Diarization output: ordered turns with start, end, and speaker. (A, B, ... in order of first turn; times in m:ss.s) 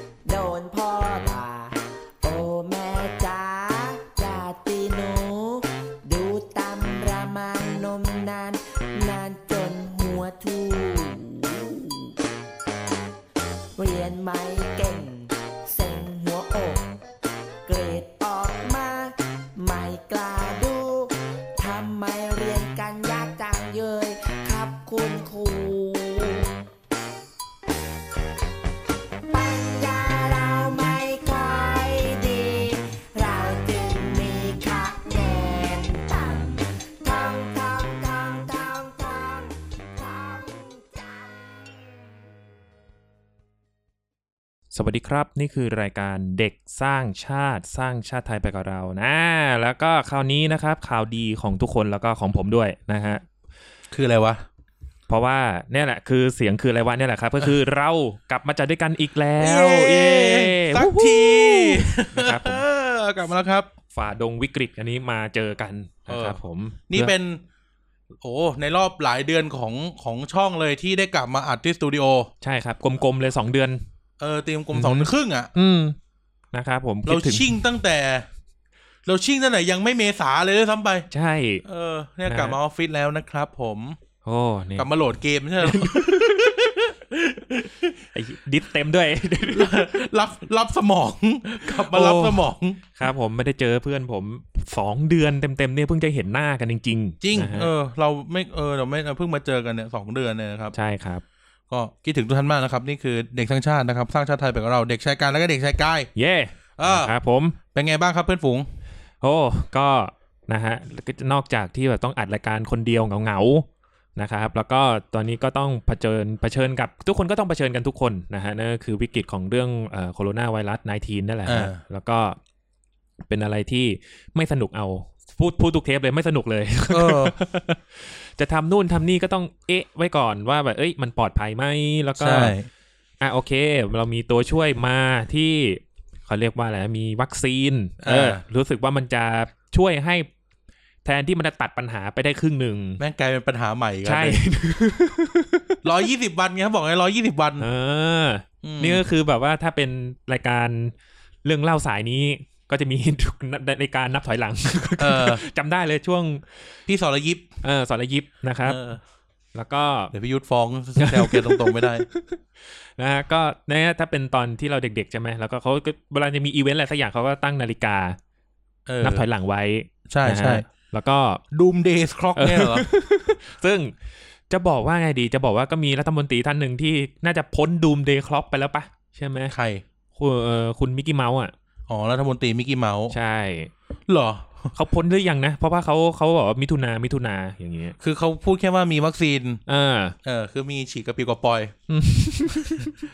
0:00.2-0:12.1 A
0:13.8-0:16.8 A
0:17.6-0:26.5 A
0:29.3-0:41.8 A
0:44.7-0:53.2 B
0:53.9-0:54.4 C
0:55.1-1:02.6 B
0:59.4-1:03.7 C
1:03.9-1:07.1 B
1:06.1-1:06.4 C
1:06.9-1:07.4 C
1:08.2-1:12.3 C
1:12.4-1:13.8 B
1:14.2-1:15.5 C
1:14.7-1:16.0 B
1:16.5-1:17.6 B
1:17.0-1:18.3 C
1:19.0-1:21.1 C
1:21.1-1:21.6 B
1:21.6-1:24.0 C
1:22.3-1:22.6 B
1:24.2-1:24.9 B
1:24.8-1:28.0 C
1:25.6-1:26.6 B
1:28.1-1:29.9 B
1:29.5-1:32.9 C
1:31.7-1:37.7 B
1:37.2-1:40.7 C
1:40.7-1:41.2 B
1:41.7-1:46.1 C
1:46.1-1:47.6 B
1:46.8-1:47.1 C
1:47.7-1:48.7 C
1:49.2-2:02.4 B
2:01.4-2:01.8 C
2:03.3-2:12.5 B
2:06.9-2:07.8 C
2:12.2-2:12.7 C
2:13.2-2:20.3 B
2:18.0-2:18.4 C
2:21.0-2:23.0 B
2:23.0-2:24.4 C
2:24.0-2:25.8 B
2:25.8-2:27.7 C
2:27.6-2:36.8 B
2:28.6-2:29.0 C
2:35.0-2:35.4 C
2:36.9-2:37.5 C
2:37.6-2:38.8 B
2:38.6-2:39.0 C
2:39.5-2:40.1 B
2:40.1-2:42.0 C
2:41.0-2:42.4 B
2:43.0-2:48.2 B
2:48.9-2:49.2 C
2:49.0-2:51.4 B
2:50.1-2:50.6 C
2:51.5-2:52.8 C
2:52.4-2:53.9 B
2:54.5-2:59.5 B
2:59.5-2:59.8 C
3:00.1-3:01.5 B
3:01.9-3:03.1 C
3:03.1-3:03.7 B
3:04.1-3:04.7 C
3:04.7-3:08.0 B
3:08.0-3:09.6 C
3:09.7-3:10.2 B
3:10.2-3:11.7 C
3:11.9-3:12.9 B